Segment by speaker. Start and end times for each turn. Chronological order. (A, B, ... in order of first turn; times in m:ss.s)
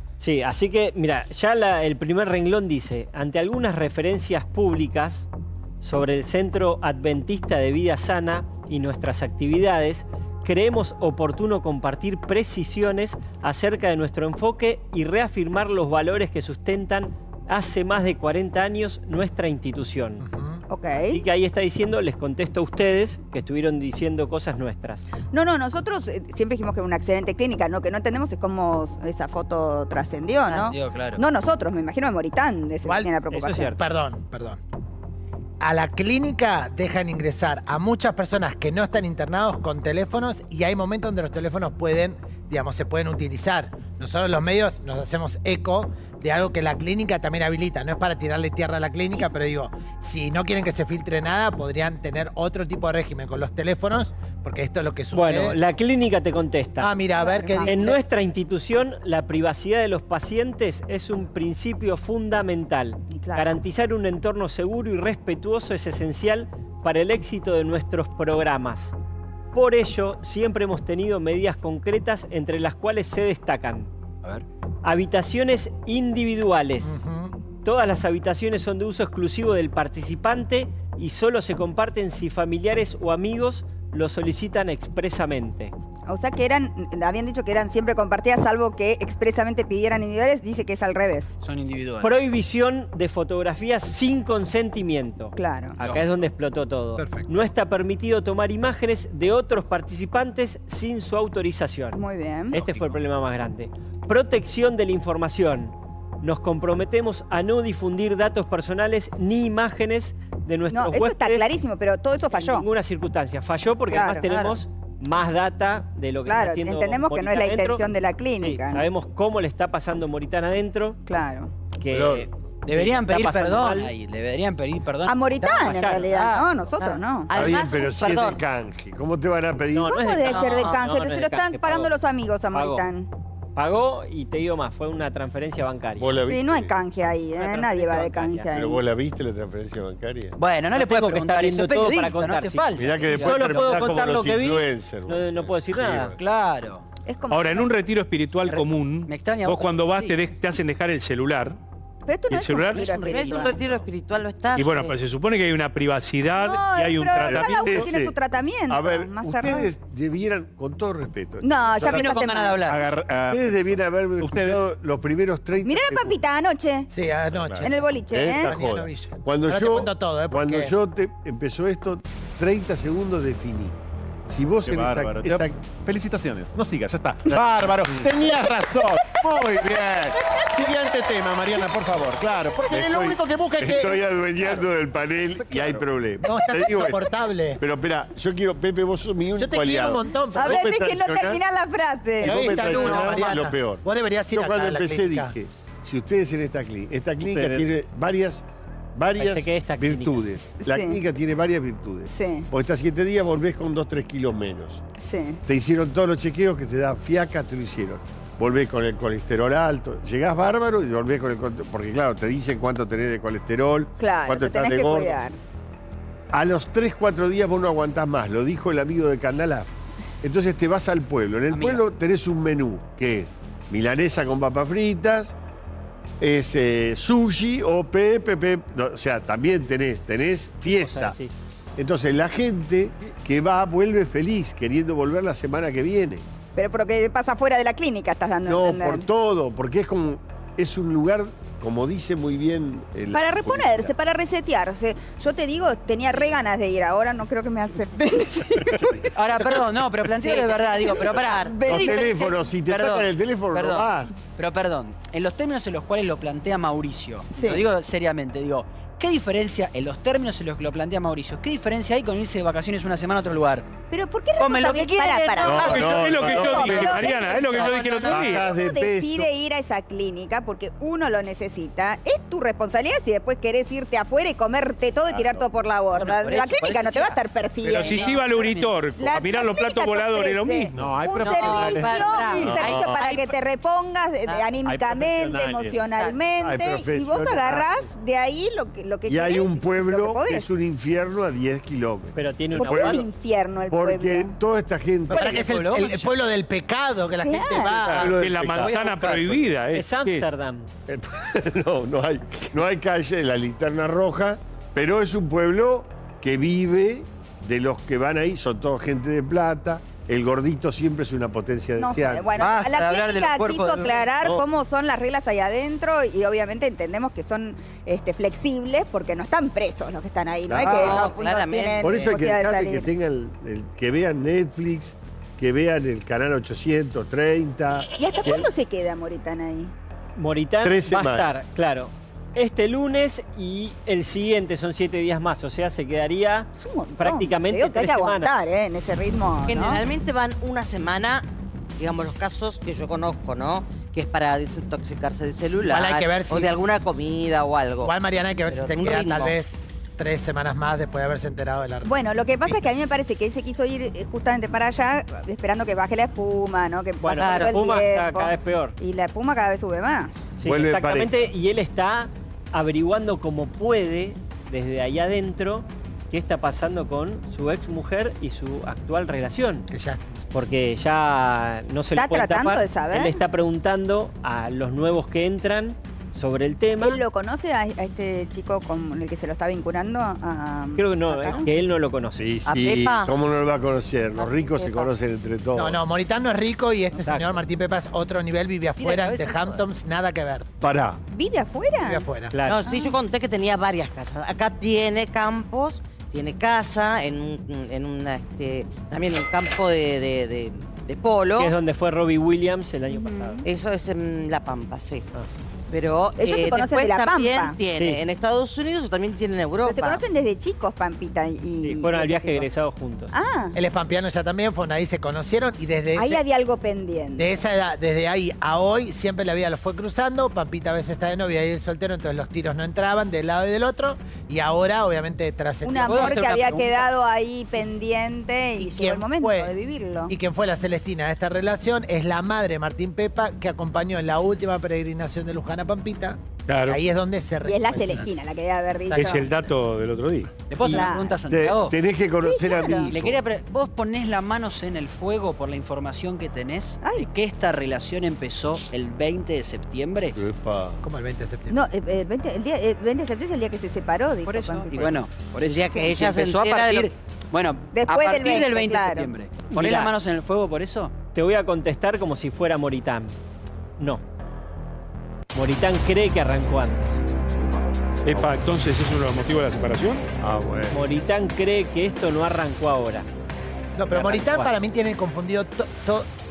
0:00.2-0:05.3 A
0:05.8-0:20.2 A
0:20.2-0:20.6 B
0:20.7-0:21.2 C
0:21.1-0:25.1 A
0:25.3-0:33.8 C
0:30.5-0:31.2 D
0:32.8-0:33.1 B
0:33.3-0:33.8 A
0:33.8-0:34.6 B
0:35.6-0:55.6 B
0:55.1-0:57.0 A
0:56.8-0:58.0 B
0:57.2-0:57.9 C
0:57.6-1:09.0 A
1:03.1-1:03.5 C
1:09.5-1:13.9 A
1:14.8-1:17.0 A
1:16.8-1:17.4 B
1:17.6-1:25.8 A
1:26.1-1:31.4 C
1:31.4-1:32.2 D
1:32.0-1:51.5 A
1:35.4-1:35.8 C
1:35.8-1:36.2 D
1:37.0-1:37.3 B
1:41.9-1:42.6 C
1:50.7-1:52.7 C
1:52.3-1:57.9 A
1:53.9-1:54.5 C
1:56.3-1:58.9 C
1:58.4-2:01.0 A
2:01.1-2:01.5 C
2:01.7-2:03.9 A
2:01.9-2:02.3 E
2:02.6-2:06.5 D
2:05.1-2:07.4 C
2:05.5-2:06.0 A
2:06.8-2:08.4 F
2:07.3-2:10.4 E
2:09.7-2:11.9 A
2:09.9-2:13.1 C
2:12.5-2:12.9 A
2:13.6-2:16.2 A
2:16.0-2:16.8 E
2:16.3-2:18.8 C
2:17.4-2:18.5 A
2:18.5-2:20.4 E
2:20.4-2:23.7 D
2:20.7-2:26.2 A
2:22.8-2:26.2 E
2:26.2-2:26.8 D
2:27.1-2:27.7 C
2:27.3-2:31.6 G
2:28.4-2:30.2 D
2:32.1-2:33.8 C
2:32.3-2:33.1 G
2:33.0-2:34.9 F
2:34.5-2:37.9 G
2:36.3-2:39.7 C
2:37.2-2:38.2 E
2:38.7-2:42.1 E
2:41.4-2:42.6 C
2:41.8-2:42.8 D
2:42.7-2:44.7 H
2:43.3-2:46.2 E
2:45.6-2:46.9 C
2:46.9-2:50.7 B
2:47.3-2:47.7 H
2:47.6-2:48.6 C
2:48.1-2:53.8 E
2:54.3-2:55.5 E
2:54.6-3:04.7 H
3:02.7-3:11.4 E
3:05.4-3:05.8 H
3:06.2-3:07.6 B
3:09.4-3:10.6 B
3:10.3-3:12.8 C
3:12.2-3:24.8 E
3:12.2-3:15.4 B
3:17.2-3:17.7 H
3:19.2-3:20.2 A
3:20.6-3:21.0 C
3:22.1-3:22.5 C
3:25.0-3:25.4 C
3:25.5-3:35.2 E
3:34.0-3:35.4 C
3:36.3-3:45.4 E
3:41.5-3:41.9 D
3:46.2-3:51.2 E
3:50.6-3:51.3 A
3:51.8-3:56.2 E
3:56.6-3:59.1 C
3:58.4-4:03.9 E
4:03.1-4:09.1 C
4:08.7-4:09.0 H
4:09.2-4:23.7 D
4:10.2-4:11.5 F
4:10.9-4:12.3 C
4:11.6-4:14.3 E
4:17.3-4:17.6 C
4:23.9-4:50.6 C
4:24.4-4:26.3 D
4:25.4-4:27.1 E
4:25.6-4:28.5 G
4:28.1-4:29.3 E
4:35.1-4:36.1 H
4:36.0-4:37.2 D
4:37.6-4:41.0 G
4:37.9-4:38.7 D
4:40.7-4:42.7 H
4:41.2-4:43.3 F
4:42.6-4:42.9 E
4:44.6-4:45.9 H
4:45.9-4:46.3 F
4:46.4-4:47.7 E
4:49.1-4:53.1 E
4:52.1-4:53.0 A
4:52.6-4:54.4 C
4:53.7-4:55.3 E
4:55.1-4:56.2 D
4:55.1-4:58.2 B
4:57.2-4:58.0 C
4:57.8-5:00.3 G
4:58.0-4:58.8 E
4:58.7-5:00.7 A
5:00.9-5:12.4 E
5:11.8-5:22.9 C
5:12.4-5:14.1 D
5:20.5-5:21.1 E
5:20.6-5:22.1 F
5:21.8-5:28.5 E
5:27.9-5:29.7 C
5:30.2-5:38.3 A
5:30.6-5:31.3 E
5:36.6-5:39.8 C
5:39.5-5:41.3 F
5:41.8-5:47.9 F
5:45.6-5:46.5 B
5:47.8-5:51.9 B
5:48.5-5:49.4 F
5:51.8-6:00.2 C
5:57.0-5:58.8 A
5:57.2-5:57.6 F
6:00.4-6:09.7 A
6:00.4-6:01.3 E
6:09.7-6:10.2 B
6:10.3-6:17.0 A
6:11.9-6:13.2 C
6:16.8-6:21.5 C
6:20.8-6:22.3 A
6:22.2-6:25.8 E
6:22.4-6:23.1 F
6:24.5-6:24.9 F
6:25.6-6:30.5 B
6:26.9-6:27.4 A
6:28.8-6:29.6 D
6:30.6-6:31.0 E
6:31.1-6:32.1 C
6:31.8-6:32.4 B
6:32.3-6:32.6 A
6:32.5-6:41.6 F
6:32.6-6:33.0 C
6:41.4-6:43.4 A
6:42.9-6:43.5 C
6:43.4-6:45.1 F
6:45.7-6:50.0 F
6:46.2-6:47.6 C
6:47.8-6:48.0 A
6:49.6-6:52.5 C
6:51.6-6:53.2 A
6:53.1-6:53.6 C
6:53.6-6:56.2 B
6:56.0-6:57.4 C
6:57.2-7:06.2 B
7:05.6-7:10.1 C
7:05.8-7:06.9 D
7:08.6-7:09.5 B
7:10.1-7:18.1 B
7:16.5-7:16.8 G
7:17.4-7:19.3 C
7:18.9-7:19.3 B
7:18.9-7:20.8 G
7:20.5-7:21.8 D
7:20.6-7:21.2 C
7:21.2-7:23.3 E
7:22.2-7:23.0 C
7:22.9-7:30.2 D
7:26.8-7:27.1 C
7:30.2-7:30.8 E
7:30.8-7:31.6 B
7:31.5-7:35.0 C
7:34.2-7:40.9 D
7:35.4-7:36.9 F
7:37.7-7:39.2 C
7:41.1-7:43.2 A
7:45.3-7:47.0 A
7:48.0-7:50.0 G
7:50.2-7:50.8 E
7:50.7-7:53.1 A
7:53.8-7:56.1 B
7:53.9-7:54.5 H